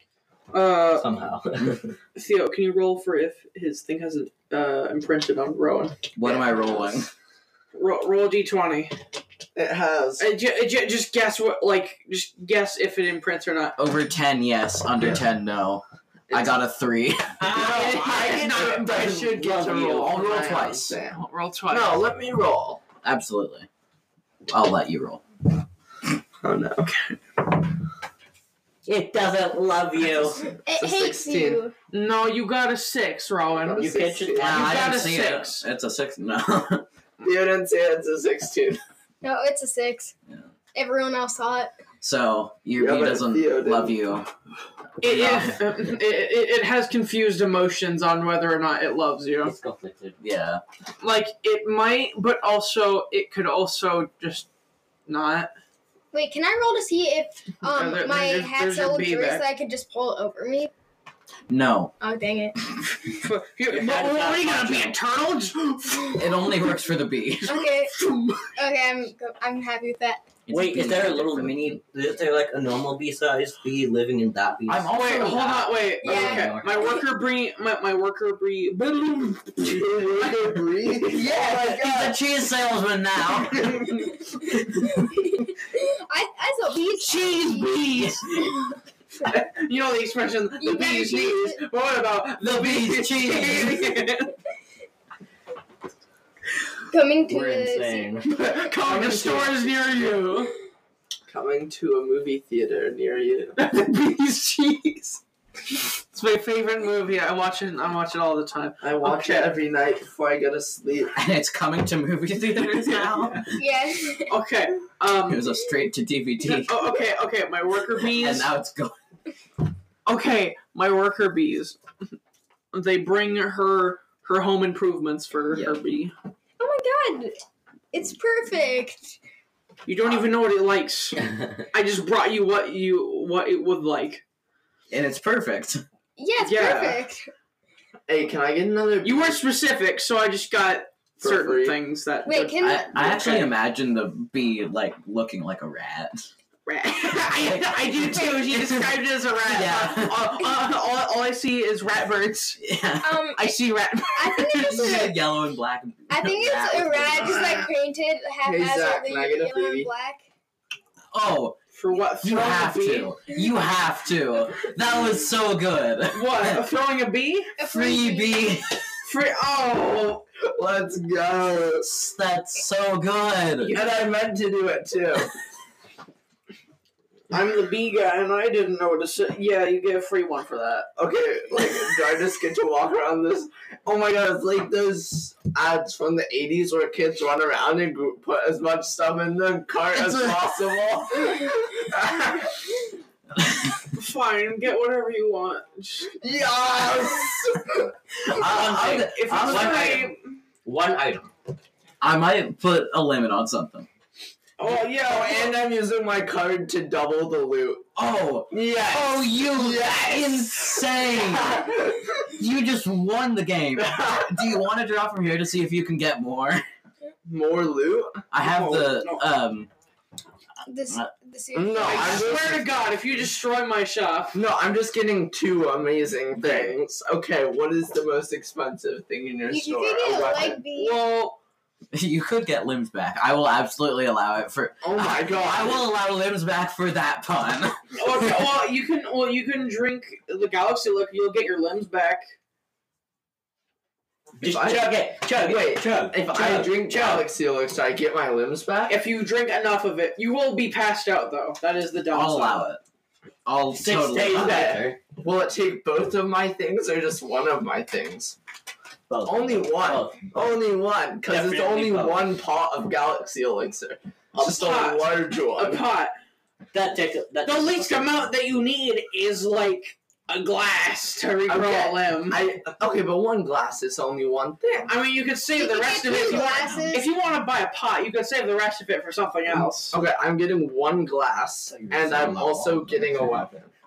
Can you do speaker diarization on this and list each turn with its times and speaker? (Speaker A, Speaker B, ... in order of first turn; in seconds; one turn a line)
Speaker A: 0.5-1.1
Speaker B: 0.9-1.9
Speaker A: 2.1-6.0
Speaker C: 6.1-7.1
Speaker D: 6.2-7.0
Speaker A: 7.7-8.9
Speaker D: 9.5-10.3
Speaker A: 10.2-13.8
Speaker C: 13.8-17.5
Speaker D: 16.3-16.6
Speaker D: 17.4-22.8
Speaker A: 17.4-19.2
Speaker C: 19.2-21.0
Speaker A: 21.1-22.0
Speaker C: 23.0-23.7
Speaker C: 24.5-25.2
Speaker D: 26.4-26.9
Speaker A: 26.8-27.2
Speaker B: 28.8-30.5
Speaker E: 30.6-31.7
Speaker D: 30.7-31.6
Speaker A: 31.9-33.9
Speaker D: 33.5-35.1
Speaker B: 33.8-34.8
Speaker C: 34.4-36.9
Speaker A: 34.4-35.6
Speaker D: 37.2-38.8
Speaker E: 39.2-40.1
Speaker E: 40.7-41.7
Speaker C: 42.0-44.3
Speaker D: 42.8-44.0
Speaker A: 45.0-49.5
Speaker C: 45.0-45.6
Speaker B: 49.4-50.2
Speaker C: 50.2-50.6
Speaker A: 51.0-54.5
Speaker A: 55.1-55.5
Speaker E: 56.1-60.7
Speaker A: 57.7-59.4
Speaker C: 61.5-61.9
Speaker E: 62.0-62.6
Speaker A: 63.1-66.5
Speaker B: 63.7-65.0
Speaker C: 66.1-67.6
Speaker E: 67.5-68.0
Speaker A: 67.8-68.5
Speaker E: 68.5-70.2
Speaker C: 70.5-71.8
Speaker B: 70.5-74.9
Speaker C: 74.7-75.8
Speaker A: 74.9-80.4
Speaker B: 76.0-77.0
Speaker E: 76.0-77.0
Speaker D: 79.6-82.2
Speaker C: 81.1-83.9
Speaker C: 84.6-84.8
Speaker E: 84.9-88.6
Speaker A: 87.0-88.2
Speaker A: 89.2-94.3
Speaker E: 90.6-91.6
Speaker C: 92.4-93.9
Speaker E: 96.9-98.2
Speaker B: 97.3-98.2
Speaker A: 98.3-100.5
Speaker D: 98.4-99.7
Speaker D: 101.3-103.5
Speaker A: 103.6-105.2
Speaker A: 106.1-109.5
Speaker D: 108.8-111.1
Speaker C: 111.2-113.5
Speaker A: 112.5-113.3
Speaker E: 113.5-114.3
Speaker A: 114.3-115.5
Speaker C: 115.3-116.8
Speaker A: 116.4-118.5
Speaker C: 118.1-119.0
Speaker A: 120.0-121.8
Speaker A: 122.7-126.1
Speaker C: 125.5-125.8
Speaker E: 126.6-127.3
Speaker E: 127.9-129.2
Speaker A: 129.8-134.2
Speaker C: 134.9-135.8
Speaker E: 136.2-137.3
Speaker A: 136.4-137.0
Speaker D: 138.1-139.4
Speaker A: 139.0-143.5
Speaker D: 141.2-141.8
Speaker E: 142.2-143.0
Speaker C: 142.6-146.2
Speaker A: 146.7-152.6
Speaker C: 147.1-150.3
Speaker C: 152.6-153.2
Speaker E: 153.0-153.5
Speaker A: 153.3-155.0
Speaker E: 154.1-155.2
Speaker C: 154.5-157.6
Speaker E: 156.1-160.2
Speaker D: 158.4-159.9
Speaker C: 161.1-161.6
Speaker A: 161.7-163.2
Speaker C: 162.2-166.6
Speaker A: 166.1-167.5
Speaker E: 167.6-168.4
Speaker C: 167.7-168.8
Speaker A: 169.0-170.2
Speaker D: 170.4-171.9
Speaker C: 171.8-173.8
Speaker A: 173.6-174.0
Speaker D: 173.7-175.3
Speaker A: 177.3-180.9
Speaker D: 180.9-192.6
Speaker C: 193.4-193.7
Speaker A: 193.9-196.1
Speaker D: 196.2-197.9
Speaker C: 198.2-200.1
Speaker B: 198.4-200.1
Speaker A: 199.0-200.2
Speaker B: 200.6-201.3
Speaker C: 202.0-203.9
Speaker A: 204.6-205.6
Speaker D: 204.7-207.8
Speaker C: 207.9-211.8
Speaker D: 208.5-212.1
Speaker C: 212.3-216.6
Speaker D: 213.8-214.4
Speaker D: 217.2-219.0
Speaker C: 218.3-219.7
Speaker A: 218.8-219.2
Speaker E: 220.7-222.3
Speaker D: 221.5-222.8
Speaker A: 221.8-224.4
Speaker D: 224.3-230.6
Speaker C: 226.4-226.7
Speaker E: 229.5-231.0
Speaker A: 230.7-231.4
Speaker C: 231.9-238.3
Speaker D: 234.8-235.9
Speaker A: 237.9-242.2
Speaker B: 244.4-247.3
Speaker D: 244.4-249.0
Speaker A: 248.9-252.7
Speaker C: 252.1-252.8
Speaker C: 253.4-254.7
Speaker B: 253.7-255.0
Speaker D: 254.2-258.4
Speaker B: 259.1-260.3
Speaker D: 259.2-265.8
Speaker B: 261.2-262.3
Speaker A: 264.3-266.1
Speaker B: 266.7-268.1
Speaker A: 267.4-272.4
Speaker D: 271.5-274.9
Speaker A: 274.9-279.9
Speaker E: 275.6-277.1
Speaker C: 276.2-277.0
Speaker D: 279.9-283.7
Speaker B: 281.8-283.4